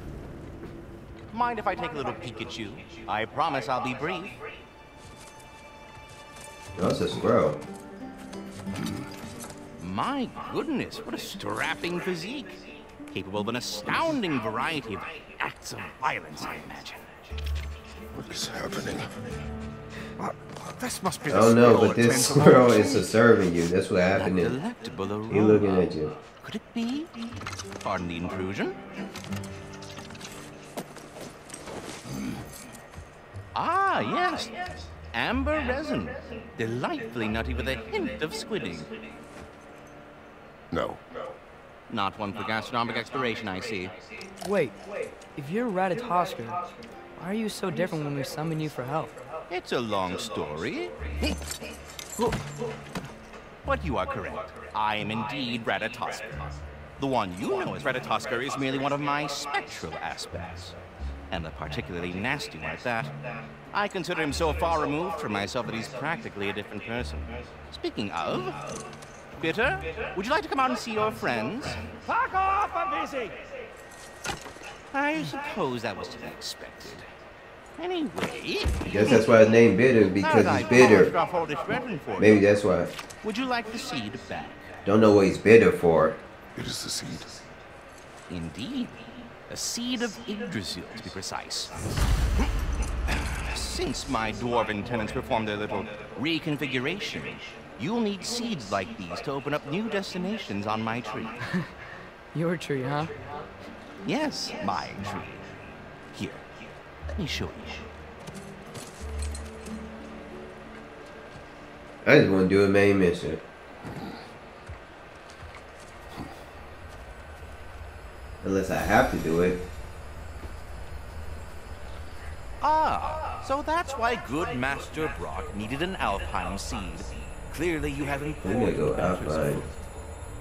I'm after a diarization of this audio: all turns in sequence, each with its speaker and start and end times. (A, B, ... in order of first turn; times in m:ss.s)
0:01.3-0:04.4 A
0:06.8-0:07.6 B
0:08.8-0:09.1 C
0:09.8-0:17.1 A
0:18.1-0:19.1 C
0:20.2-0:23.1 A
0:21.3-0:24.6 B
0:24.2-0:25.8 A
0:25.3-0:26.2 B
0:26.4-0:27.1 A
0:27.8-0:28.8 A
0:33.5-0:34.6 A
0:35.1-0:38.9 A
0:40.7-0:41.0 C
0:41.9-0:43.9 A
0:44.4-0:44.8 D
0:45.4-0:46.6 D
0:47.2-0:49.2 D
0:49.5-0:51.4 A
0:53.6-1:00.8 A
1:01.3-1:03.1 A
1:03.7-1:08.6 A
1:09.4-1:11.9 A
1:14.9-1:17.1 A
1:17.8-1:19.5 A
1:18.8-1:21.1 B
1:20.2-1:22.4 A
1:22.2-1:22.9 B
1:23.2-1:24.6 A
1:24.8-1:26.2 B
1:26.6-1:27.4 C
1:28.3-1:32.0 A
1:33.1-1:41.4 A
1:42.3-1:43.2 D
1:44.0-1:45.5 A
1:46.1-1:46.4 A
1:47.1-1:47.8 A
1:52.0-1:53.4 B
1:58.4-1:59.6 B
2:02.6-2:09.7 A
2:08.4-2:09.6 B